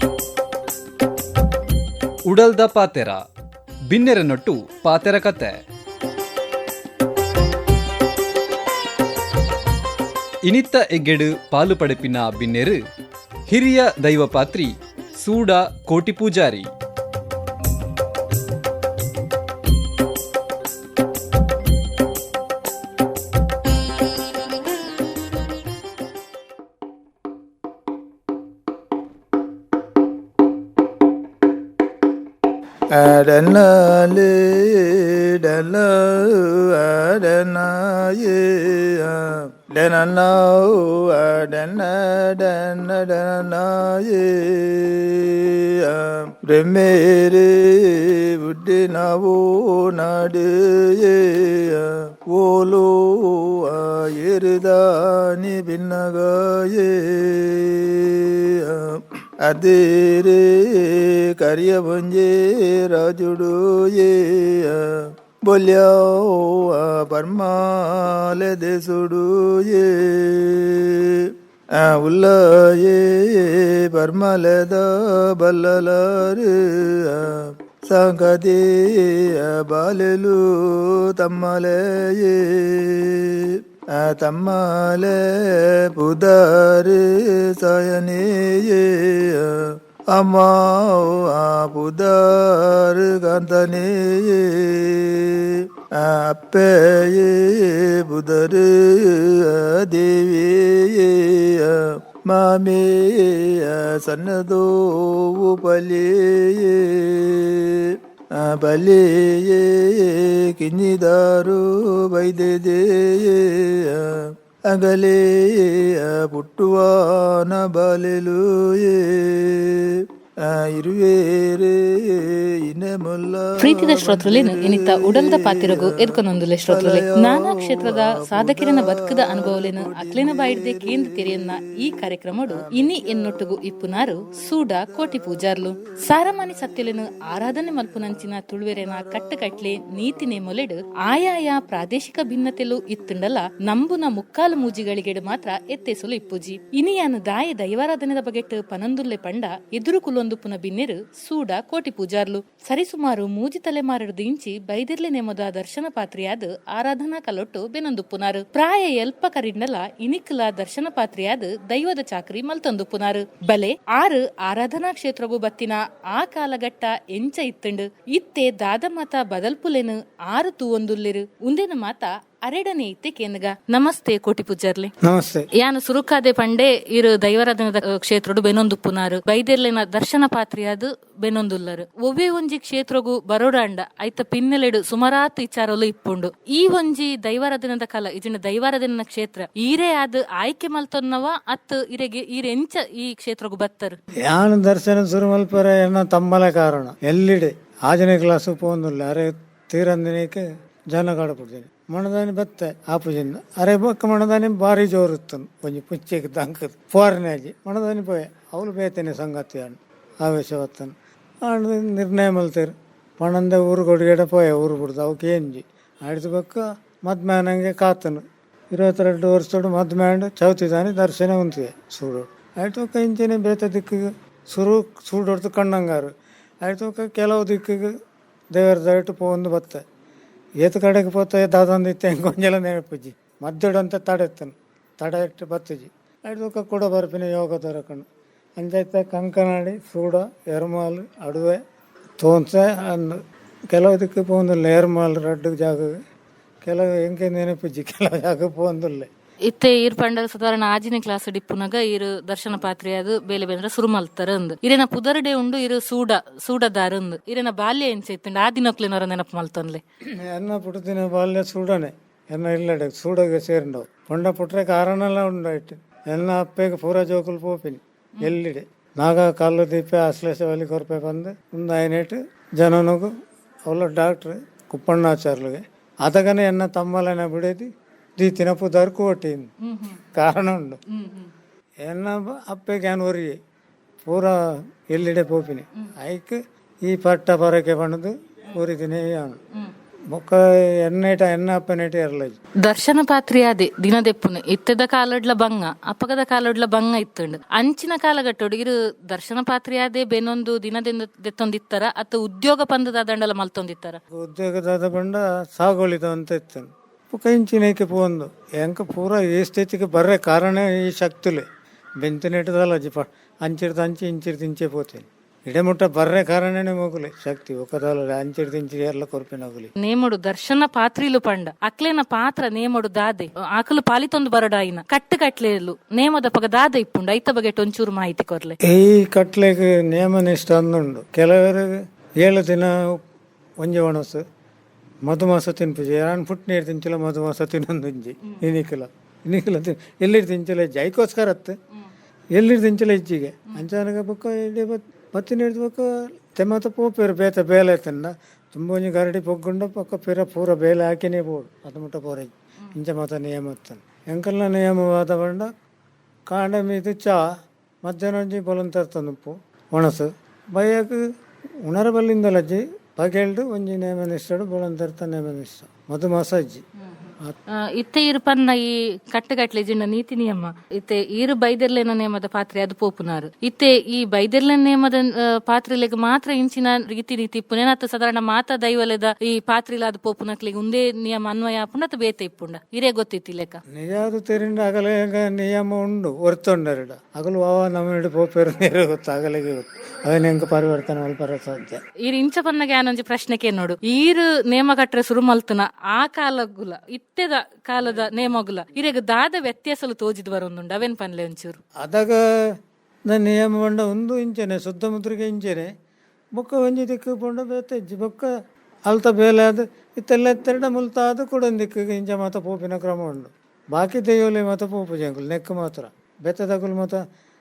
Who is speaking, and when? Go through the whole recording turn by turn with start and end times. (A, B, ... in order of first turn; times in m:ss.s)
0:02.3-0:03.2 A
0:03.9-0:05.6 A
0:10.4-0:12.8 A
0:13.5-0:16.7 A
0:32.9-2:06.1 B
2:03.6-2:54.9 C
2:06.7-2:11.6 B
2:12.5-2:13.7 B
2:14.6-2:15.7 B
2:18.9-2:20.0 B
2:55.0-2:55.5 D
2:55.5-3:14.0 C
3:14.2-3:30.9 D
3:31.4-3:48.0 D
3:48.5-3:49.8 D
3:50.6-4:01.6 D
4:02.2-4:06.0 D
4:06.6-4:09.1 D
4:09.5-4:19.8 C
4:20.0-4:33.1 D
4:33.7-4:39.5 D
4:39.6-4:40.0 C
4:40.0-4:40.8 D
4:40.9-4:41.3 C
4:41.8-4:43.4 D
4:44.0-4:49.4 D
4:50.1-4:52.4 D
4:52.6-5:04.0 C
5:04.1-5:11.5 D
5:12.0-5:19.7 D
5:19.8-5:28.6 C
5:28.6-5:33.0 D
5:33.6-5:34.2 D
5:35.1-5:41.6 D
5:42.3-5:55.5 D
5:56.3-6:01.1 D
6:01.6-6:06.6 D
6:07.5-6:23.6 C
6:23.7-6:31.8 D
6:32.0-6:41.6 C
6:41.8-6:42.6 D
6:43.1-6:45.7 D
6:46.3-6:48.4 D
6:48.9-6:57.0 D